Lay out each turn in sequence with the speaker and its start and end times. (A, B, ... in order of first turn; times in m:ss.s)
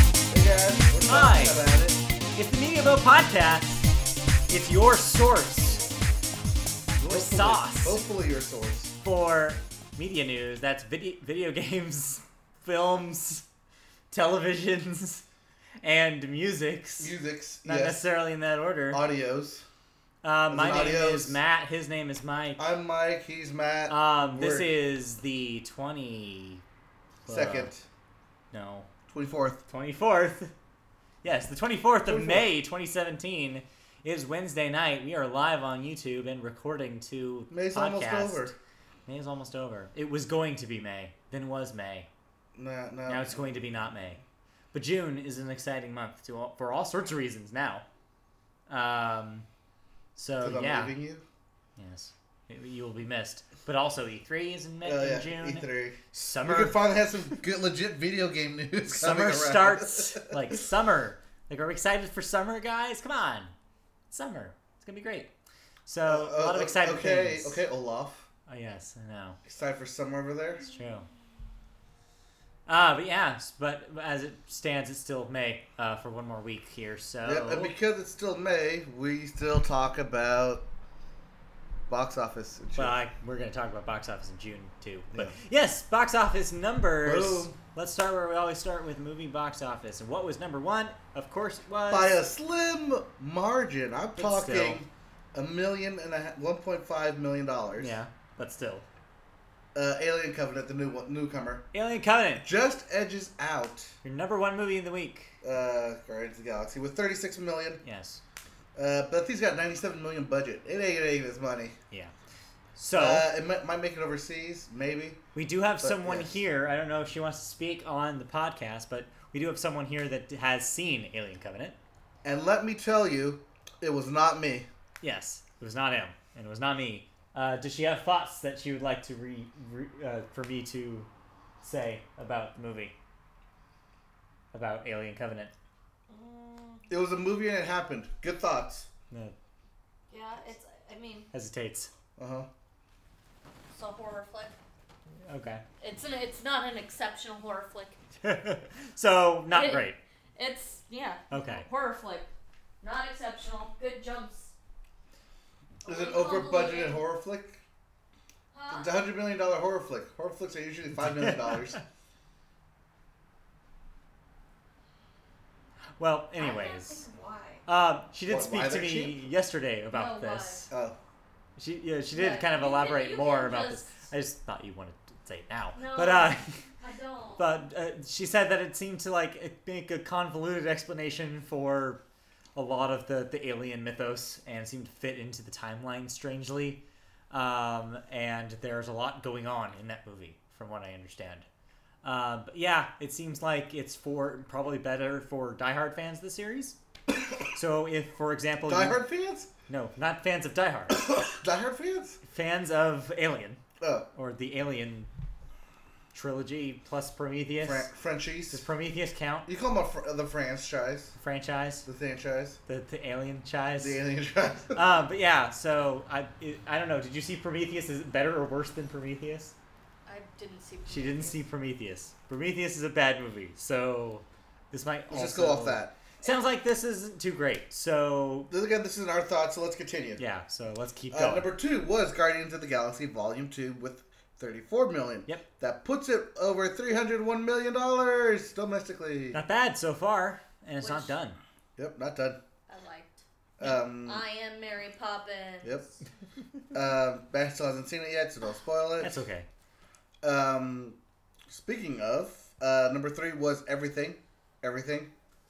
0:00.3-0:02.0 A
0:01.0-0:01.6 B
0:02.3-0:03.9 B
0:04.5-0:05.9 B
0:07.0-0:08.9 A
0:07.1-0:08.0 B
0:09.0-0:13.4 B
0:14.1-0:15.2 B
0:15.8-0:19.0 B
0:17.0-0:18.0 A
0:18.9-0:19.6 A
0:20.2-0:22.6 B
0:20.5-0:21.4 A
0:22.6-0:24.7 A
0:23.9-0:26.6 B
0:27.2-0:27.7 B
0:27.3-0:27.8 A
0:28.5-0:28.9 B
0:29.1-0:29.6 A
0:29.7-0:30.5 B
0:31.2-0:38.5 B
0:32.0-0:32.5 A
0:37.5-0:38.5 A
0:39.1-0:42.1 B
0:42.6-0:43.6 A
0:43.1-0:44.2 B
0:44.7-0:47.8 B
0:48.7-0:49.4 B
0:50.2-0:51.0 B
0:50.4-0:51.2 A
0:51.8-0:56.8 B
0:54.8-1:00.6 A
0:58.8-1:03.5 B
1:04.1-1:05.3 B
1:05.8-1:07.6 B
1:06.0-1:08.3 A
1:08.5-1:09.4 B
1:09.4-1:10.6 A
1:10.7-1:11.1 B
1:12.6-1:17.7 B
1:17.2-1:20.6 A
1:21.9-1:23.0 A
1:22.8-1:32.2 B
1:27.0-1:27.5 A
1:31.9-1:37.9 A
1:34.2-1:34.8 B
1:37.8-1:38.8 B
1:39.7-1:41.7 A
1:41.7-1:42.4 B
1:42.4-1:43.9 A
1:44.0-1:45.4 B
1:45.4-1:47.8 A
1:47.8-1:48.2 B
1:48.7-1:51.8 A
1:52.8-1:53.3 B
1:52.9-1:55.2 A
1:55.3-2:01.8 B
1:55.8-1:56.3 A
2:02.2-2:04.7 A
2:05.0-2:11.1 B
2:11.6-2:12.9 B
2:14.5-2:15.5 B
2:16.1-2:16.8 C
2:16.9-2:18.9 A
2:20.1-2:21.3 C
2:21.3-2:21.9 B
2:22.2-2:22.5 A
2:23.7-2:24.5 C
2:25.2-2:25.6 B
2:25.8-2:28.0 C
2:28.2-2:30.0 B
2:29.5-2:32.3 C
2:31.3-2:31.6 B
2:32.8-2:34.5 C
2:35.8-2:37.0 C
2:35.8-2:37.6 A
2:38.5-2:38.9 C
2:38.7-2:41.8 A
2:41.0-2:41.8 B
2:46.0-2:47.0 B
2:46.4-2:47.6 C
2:47.6-2:50.7 B
2:48.3-2:49.3 A
2:49.9-2:50.7 C
2:50.7-2:51.0 A
2:51.6-2:56.6 B
2:52.1-2:54.0 C
2:55.7-2:57.5 C
2:57.4-3:02.0 B
3:02.5-3:11.4 B
3:12.0-3:16.8 B
3:17.5-3:19.0 B
3:18.7-3:19.5 A
3:19.7-3:21.1 B
3:21.0-3:22.2 A
3:22.2-3:23.6 B
3:23.8-3:24.1 A
3:24.1-3:25.1 B
3:26.1-3:27.9 B
3:27.6-3:28.6 A
3:28.5-3:29.5 B
3:29.5-3:31.1 A
3:31.2-3:31.8 B
3:31.8-3:32.6 A
3:32.7-3:34.0 B
3:33.8-3:34.8 A
3:34.7-3:39.5 B
3:40.0-3:41.4 C
3:40.9-3:48.5 B
3:45.1-3:45.9 A
3:48.5-3:50.2 A
3:50.2-3:51.5 B
3:51.1-3:59.4 A
3:59.3-4:01.4 B
4:00.8-4:01.1 C
4:01.8-4:02.4 A
4:02.7-4:03.2 C
4:03.6-4:04.2 A
4:03.9-4:05.8 C
4:06.7-4:09.2 A
4:09.0-4:09.5 B
4:10.2-4:15.1 A